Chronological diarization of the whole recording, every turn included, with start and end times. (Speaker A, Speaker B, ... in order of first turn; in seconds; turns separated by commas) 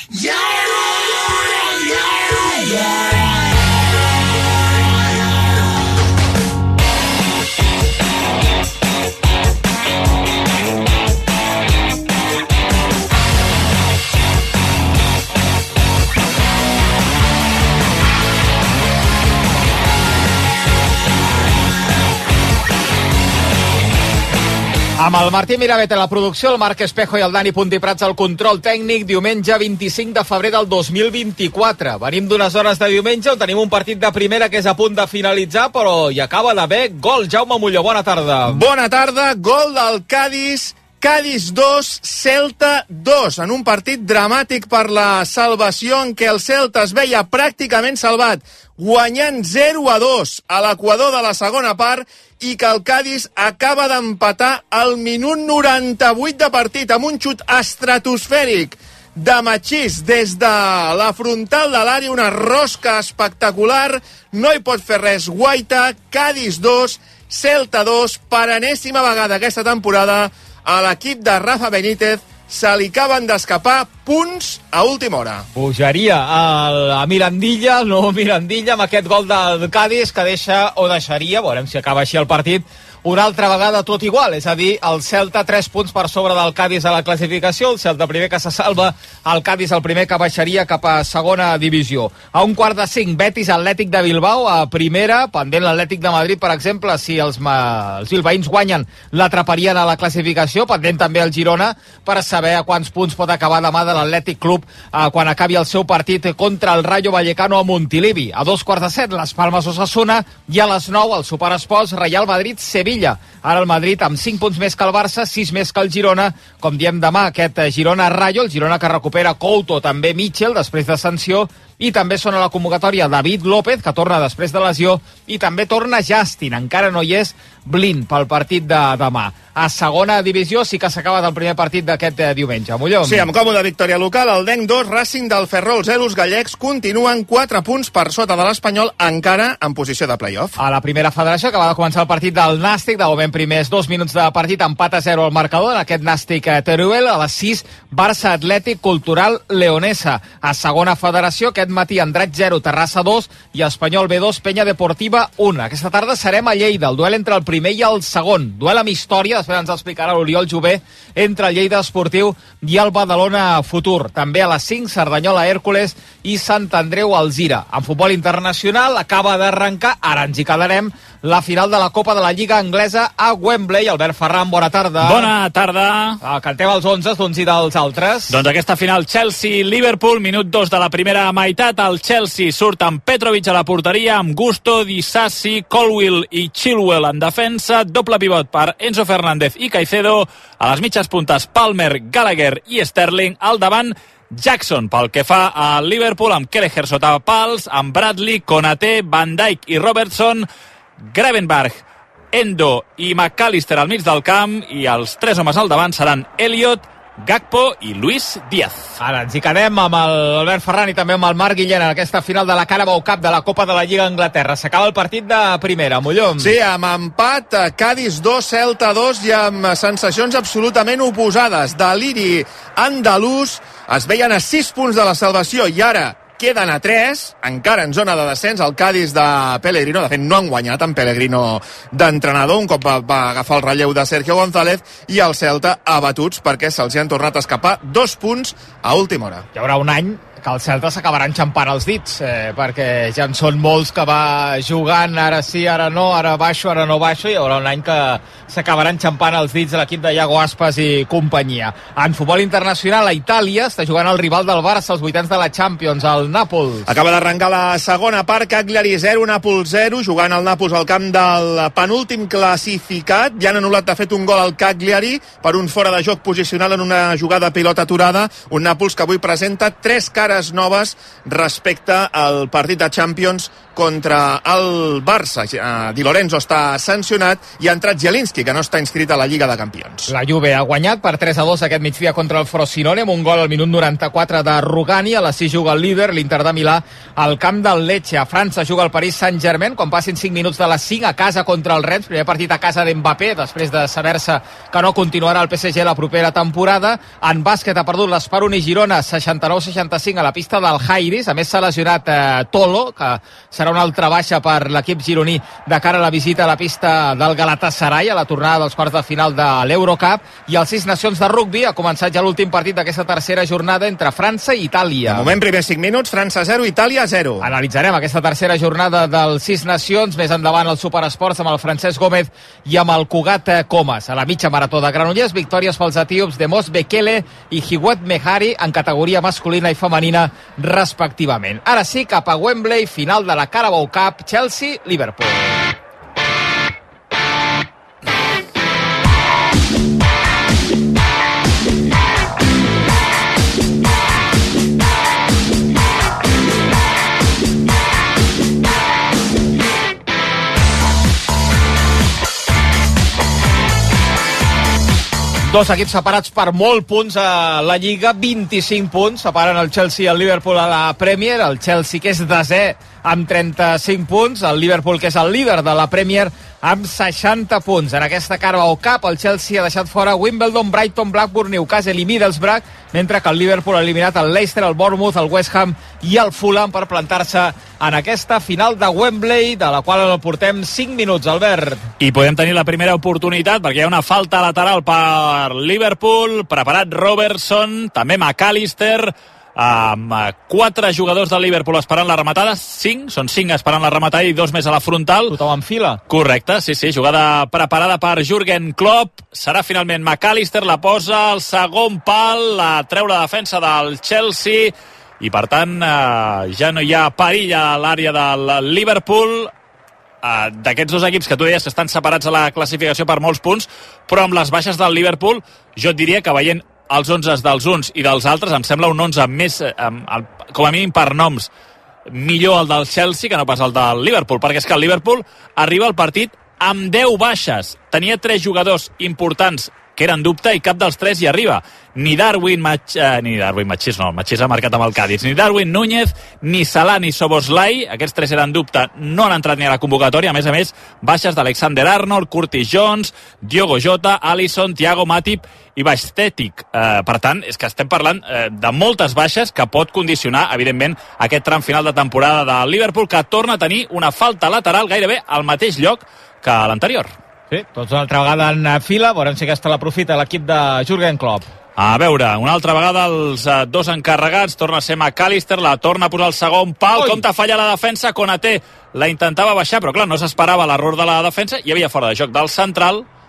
Speaker A: 25.0-38.6, Speaker B: 38.5-75.5, Speaker A: 75.5-133.3, Speaker B: 133.0-140.6, Speaker A: 140.6-175.3, Speaker C: 175.0-176.2, Speaker A: 176.2-178.4, Speaker C: 178.3-200.5, Speaker C: 201.0-209.0, Speaker A: 209.0-216.5, Speaker B: 216.4-239.5, Speaker A: 239.6-256.9, Speaker B: 256.9-280.1, Speaker A: 280.1-315.4, Speaker B: 315.1-317.5, Speaker A: 317.4-335.7, Speaker A: 355.5-381.9, Speaker C: 382.0-395.4, Speaker A: 395.3-396.0, Speaker C: 396.1-409.5, Speaker C: 410.2-421.5, Speaker C: 422.1-457.1, Speaker A: 457.5-461.5, Speaker C: 461.8-473.1, Speaker A: 467.0-467.2